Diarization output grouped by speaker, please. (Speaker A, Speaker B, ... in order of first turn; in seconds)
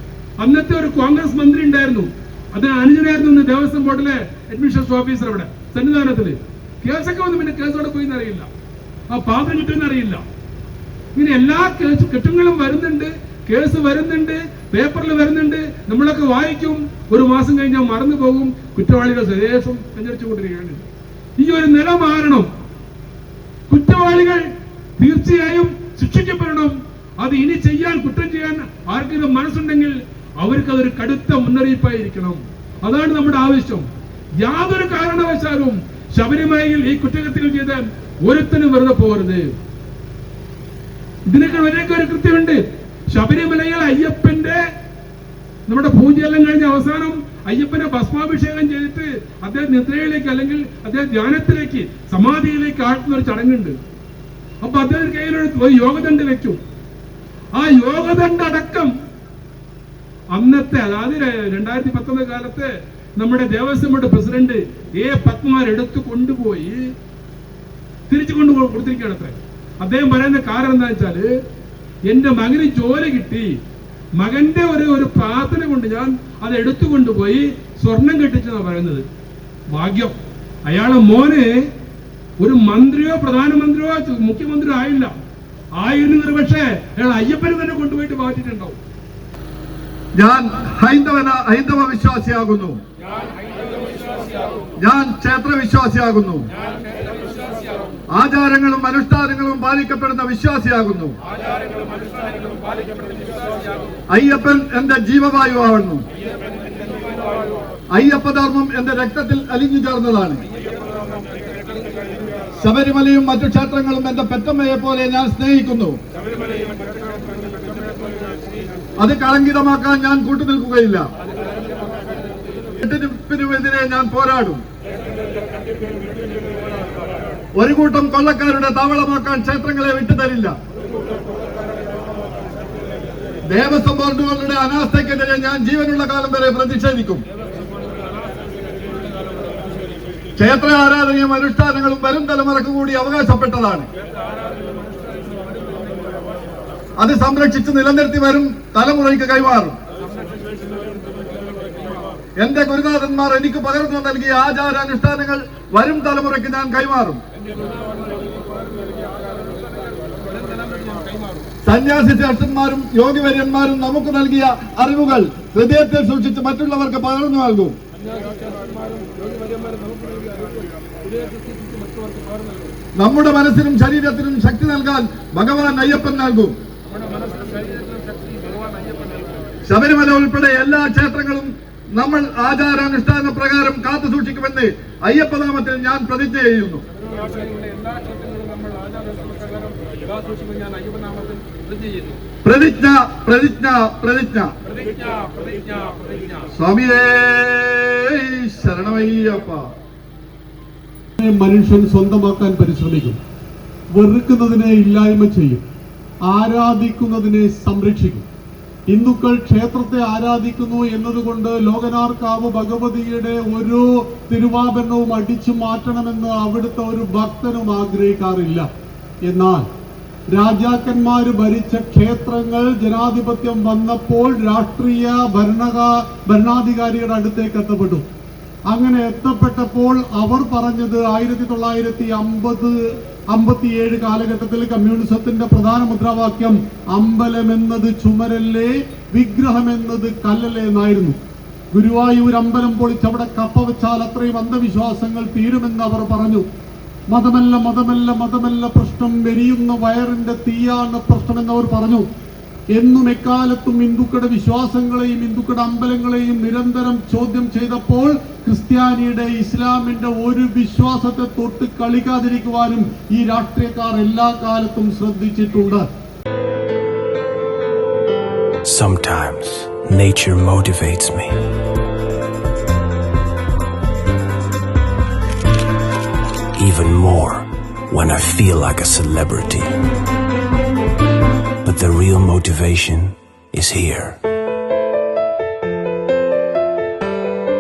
Speaker A: 0.4-8.5, 9.1-10.2, 11.1-20.8, 21.4-22.5, 23.7-24.4, 25.0-33.9, 34.4-39.5, 41.2-44.6, 45.6-53.8, 54.6-56.6, 57.5-58.9, 60.3-66.8, 68.1-71.3, 72.0-73.5, 74.2-79.0, 79.7-81.7, 82.4-85.1, 85.8-88.8, 168.2-172.7, 177.0-179.2, 187.2-192.2, 195.0-196.1
Speaker B: 90.1-92.8, 94.8-96.5, 98.1-101.1, 104.1-106.0, 107.9-110.4, 112.6-116.0, 119.0-121.0, 122.8-124.6, 127.5-130.5, 133.5-137.2, 140.4-143.8, 147.0-149.8, 152.4-157.2, 161.6-167.8, 172.9-176.6, 179.6-186.8, 192.4-194.5, 196.5-199.7
Speaker C: 201.2-203.2, 203.9-205.6, 206.3-208.2, 208.9-218.7, 219.2-219.7, 220.3-228.0, 228.7-232.7, 233.3-241.2, 241.7-246.4, 247.1-252.0, 252.7-265.8
Speaker D: 268.6-271.4, 276.6-279.7, 281.6-284.2